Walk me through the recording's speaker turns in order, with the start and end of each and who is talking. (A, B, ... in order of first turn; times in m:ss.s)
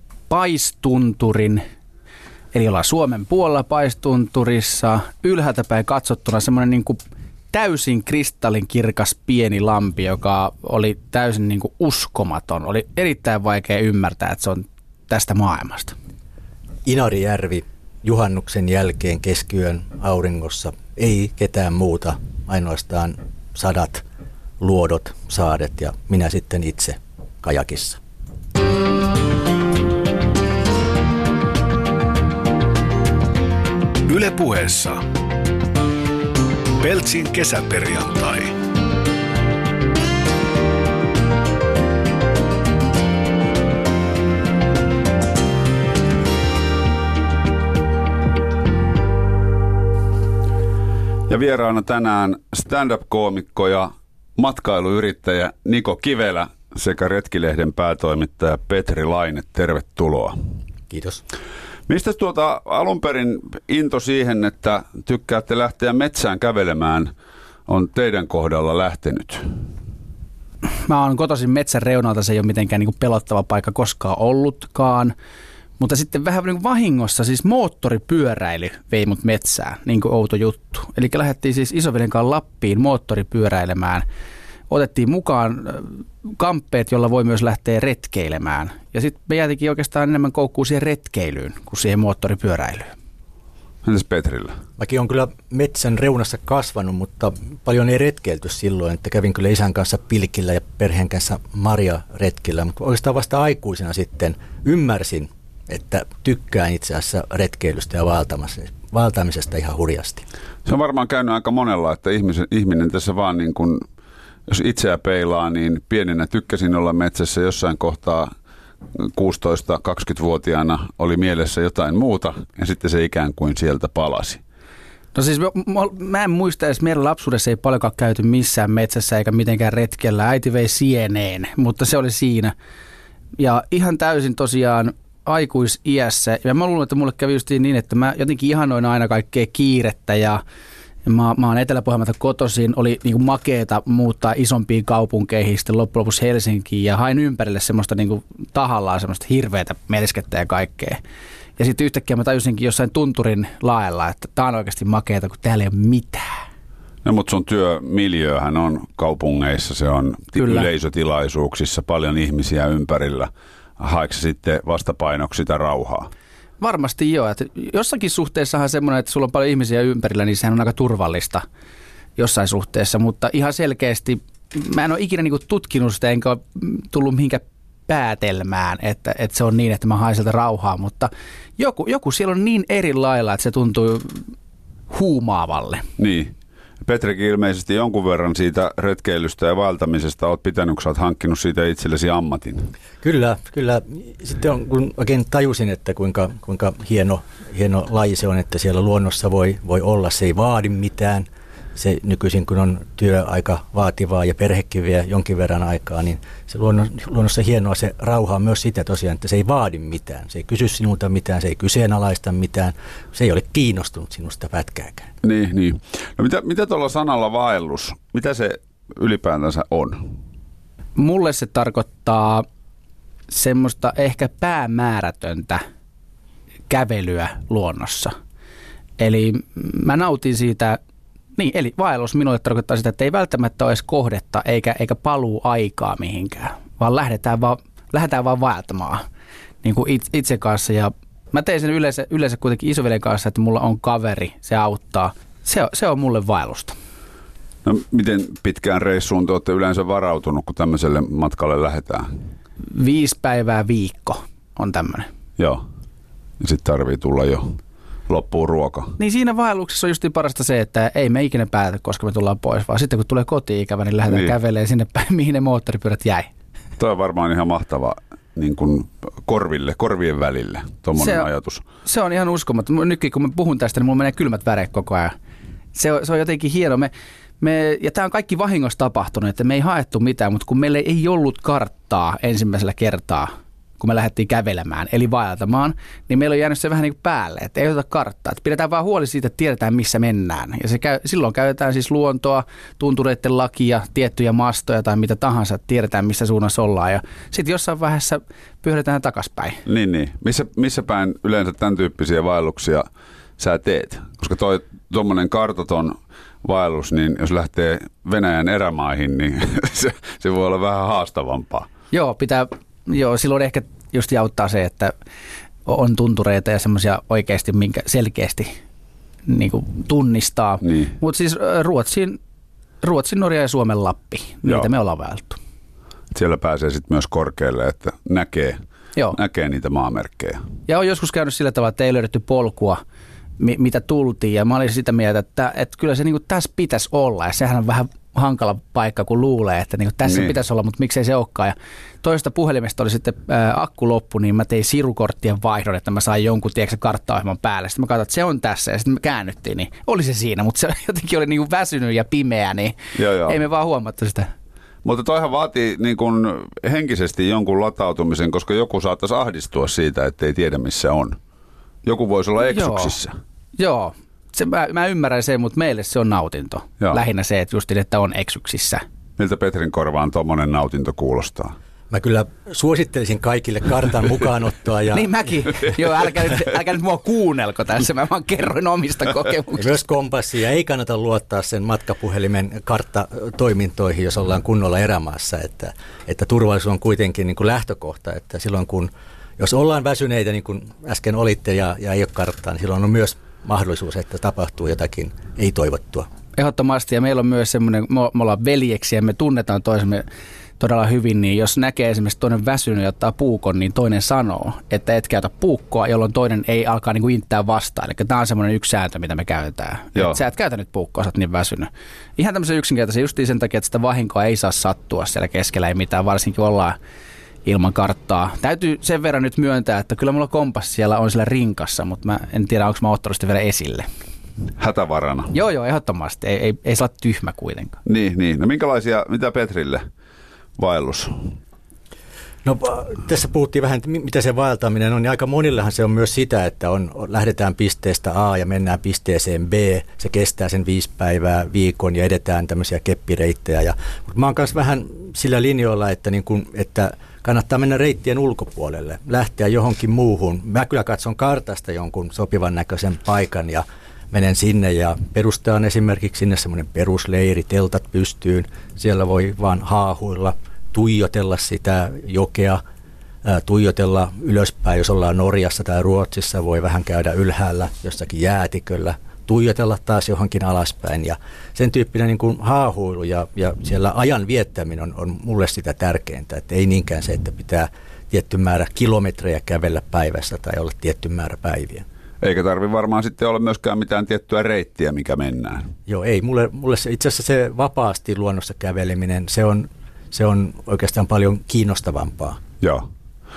0:00.3-0:01.6 A
0:02.5-0:07.0 A
0:07.5-0:16.0 A
0:16.8-0:24.0 B
0:24.6-0:28.0 B
0:34.1-0:35.1 C
0:36.8-0:38.6 C
0:51.3-1:00.4 D
1:00.9-1:01.2 B
1:01.9-1:07.1 D
1:07.7-1:09.6 D
1:10.7-1:15.1 A
1:15.8-1:24.0 A
1:24.7-1:32.9 A
1:33.8-1:34.6 D
1:34.8-1:50.2 B
1:50.6-1:53.8 D
1:54.5-1:58.3 D
1:59.0-2:04.4 D
2:05.2-2:12.5 A
2:13.4-2:20.4 A
2:21.0-2:31.0 A
2:31.6-2:36.4 A
2:37.0-2:46.1 D
2:40.4-2:40.7 A
2:46.6-2:51.4 A
2:52.2-3:04.3 A
3:04.9-3:05.9 A
3:06.0-3:12.7 D
3:13.0-3:35.1 B
3:35.2-3:40.2 D
3:41.0-3:42.5 A
3:43.3-3:45.6 A
3:46.7-3:48.1 A
3:49.0-3:50.8 A
3:51.4-3:59.0 A
3:59.6-4:06.8 A
4:07.6-4:12.1 D
4:12.6-4:15.1 A
4:16.4-4:19.0 D
4:19.0-4:26.3 A
4:24.1-4:24.3 D
4:26.8-4:31.6 D
4:31.0-4:31.3 A
4:31.8-4:35.2 A
4:35.7-4:59.6 A
4:59.7-5:02.9 D
5:03.4-5:11.7 D
5:11.9-5:14.9 A
5:15.7-5:18.5 A
5:19.3-5:22.2 A
5:20.6-5:21.0 D
5:22.8-5:25.4 A
5:26.1-5:28.6 D
5:29.1-5:30.4 D
5:30.7-5:32.8 A
5:33.4-5:54.3 A
5:40.1-5:40.3 D
5:53.0-5:53.4 D
5:54.8-6:01.2 D
6:01.8-6:03.1 D
6:02.5-6:03.0 A
6:03.6-6:08.8 A
6:09.2-6:11.6 D
6:11.9-6:15.3 B
6:14.9-6:19.7 A
6:19.6-6:36.1 B
6:36.4-6:40.1 A
6:40.6-6:56.8 A
6:57.4-7:03.9 A
7:04.6-7:05.4 D
7:05.3-7:07.8 A
7:07.8-7:09.8 D
7:10.6-7:11.4 D
7:12.4-7:42.6 B
7:43.2-8:01.8 B
8:02.2-8:05.7 D
8:05.9-8:12.4 B